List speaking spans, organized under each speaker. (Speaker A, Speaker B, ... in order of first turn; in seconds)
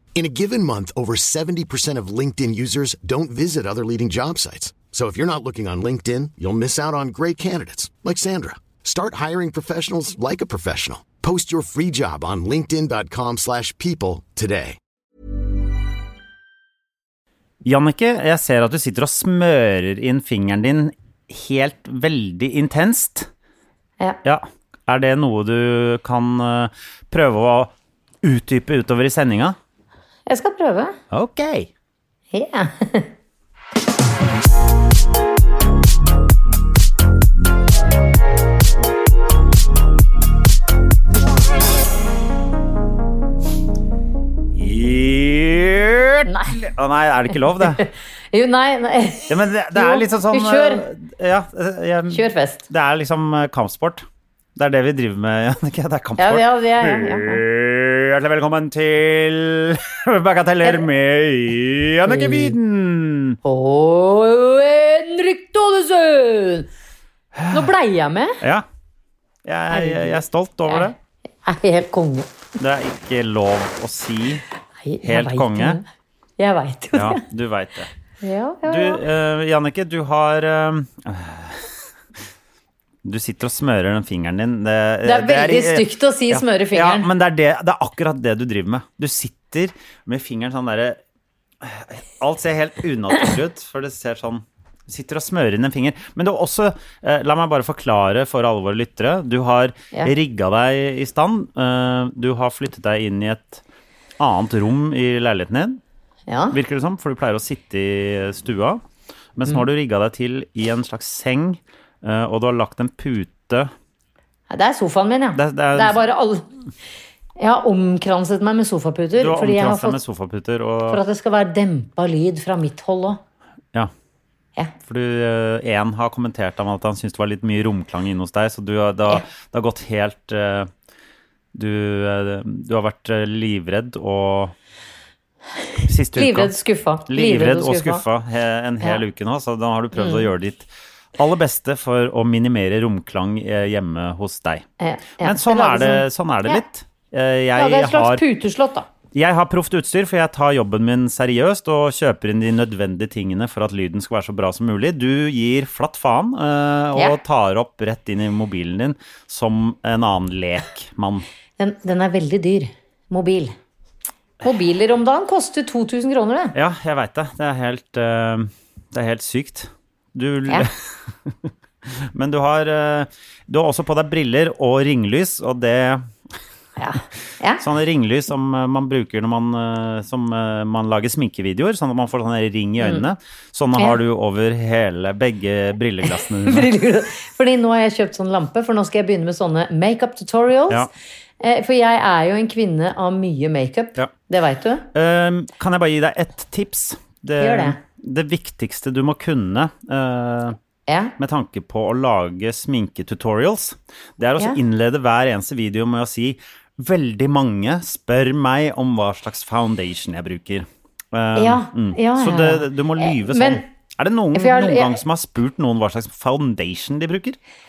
Speaker A: 0.1-14.8
Speaker B: 17.6-23.3, 24.2-27.7, 28.2-29.6, 31.1-31.7, 44.5-47.8, 49.3-63.4, 67.3-67.7, 68.4-68.7, 69.4-70.9, 72.6-74.4, 75.0-75.8, 76.9-77.9, 78.6-81.7, 83.0-91.0, 91.6-103.6, 104.2-105.8, 106.5-108.8, 109.3-113.7, 115.3-116.0, 119.2-121.0, 124.8-130.7, 131.5-134.5, 135.8-136.5, 137.1-144.7, 145.2-148.2, 149.1-161.2, 166.5-176.1, 177.6-186.7, 194.9-200.6, 201.2-217.4
Speaker C: 30.3-31.0, 32.3-33.1, 46.2-46.6, 47.6-50.8, 52.1-52.6, 56.2-57.4, 62.0-62.5, 63.4-66.7, 67.5-68.4, 69.7-72.3, 74.8-75.8, 76.4-77.2, 78.2-79.0, 85.0-87.1, 106.3-106.6, 114.5-116.5, 117.4-120.0, 120.9-123.2, 136.1-138.0, 139.9-140.3, 144.8-146.6, 147.6-148.9, 161.6-163.5, 164.4-166.5, 176.8-177.6, 182.8-183.0, 186.4-190.9, 191.4-194.9, 197.4-197.8, 200.9-201.2, 211.3-213.6, 214.3-215.0